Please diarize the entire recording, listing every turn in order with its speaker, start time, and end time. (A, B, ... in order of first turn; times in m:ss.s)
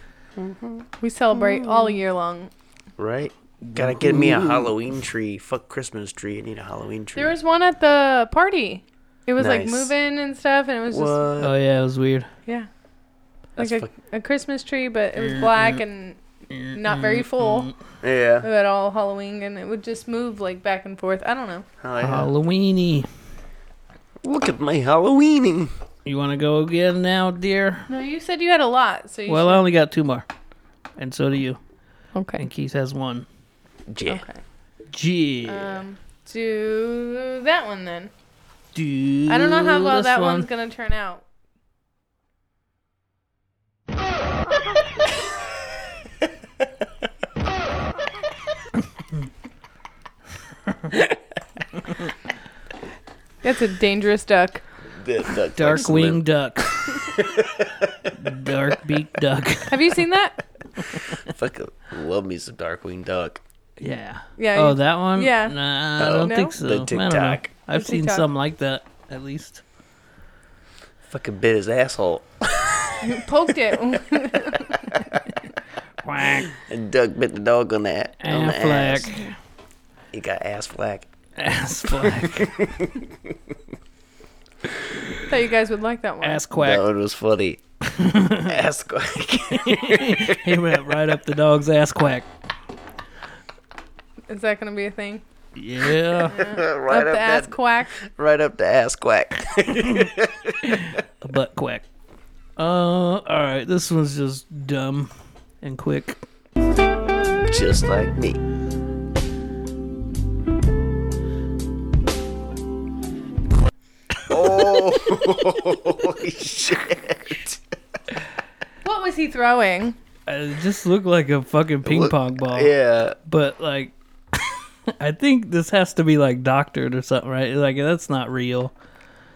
0:00.4-0:01.9 A
0:01.0-0:02.5 B
0:03.0-0:07.4 A
0:03.6-0:04.7 C
0:07.2-0:11.3 B
0:09.4-0:09.9 A
0:10.9-0:11.6 A
0:11.4-0:12.3 C
0:13.6-0:13.9 A
0:13.6-0:16.2 B
0:15.2-0:15.8 C
0:16.5-0:17.7 C
0:16.7-0:17.7 B
0:18.0-0:18.5 A
0:18.4-0:21.7 B
0:21.8-0:22.3 A
0:22.0-0:23.1 C
0:24.2-0:25.7 A
0:26.1-0:27.9 C
0:27.9-0:29.7 B
0:29.3-0:30.3 C
0:31.0-0:31.6 C
0:32.1-0:32.4 B
0:32.4-0:33.3 C
0:33.9-0:34.2 A
0:34.1-0:34.4 B
0:34.9-0:35.8 C
0:35.5-0:38.1 B
0:38.8-0:40.5 C
0:39.3-0:41.2 B
0:53.4-0:54.6 B
0:55.0-0:56.2 A
0:55.6-0:56.9 C
0:57.0-0:58.1 A
0:58.2-0:59.9 C
0:59.7-1:00.4 B
1:01.2-1:03.4 A
1:03.8-1:09.6 C
1:04.4-1:05.6 B
1:06.0-1:07.5 A
1:06.1-1:06.6 B
1:07.7-1:08.3 B
1:11.1-1:13.2 A
1:13.0-1:14.9 B
1:16.0-1:16.5 C
1:16.5-1:19.2 A
1:18.2-1:19.3 C
1:20.1-1:21.1 A
1:21.4-1:22.7 C
1:22.0-1:23.1 A
1:25.3-1:26.4 B
1:26.2-1:26.8 C
1:26.6-1:27.6 A
1:27.9-1:28.6 C
1:28.5-1:30.8 A
1:29.5-1:32.3 C
1:34.3-1:35.2 B
1:35.6-1:36.4 C
1:36.3-1:38.0 B
1:36.3-1:40.9 A
1:40.7-1:41.8 C
1:42.6-1:45.1 C
1:45.6-1:46.2 C
1:47.5-1:48.4 A
1:54.3-1:57.6 A
1:58.8-2:00.0 B
2:00.3-2:02.7 C
2:01.8-2:03.2 A
2:03.2-2:08.7 C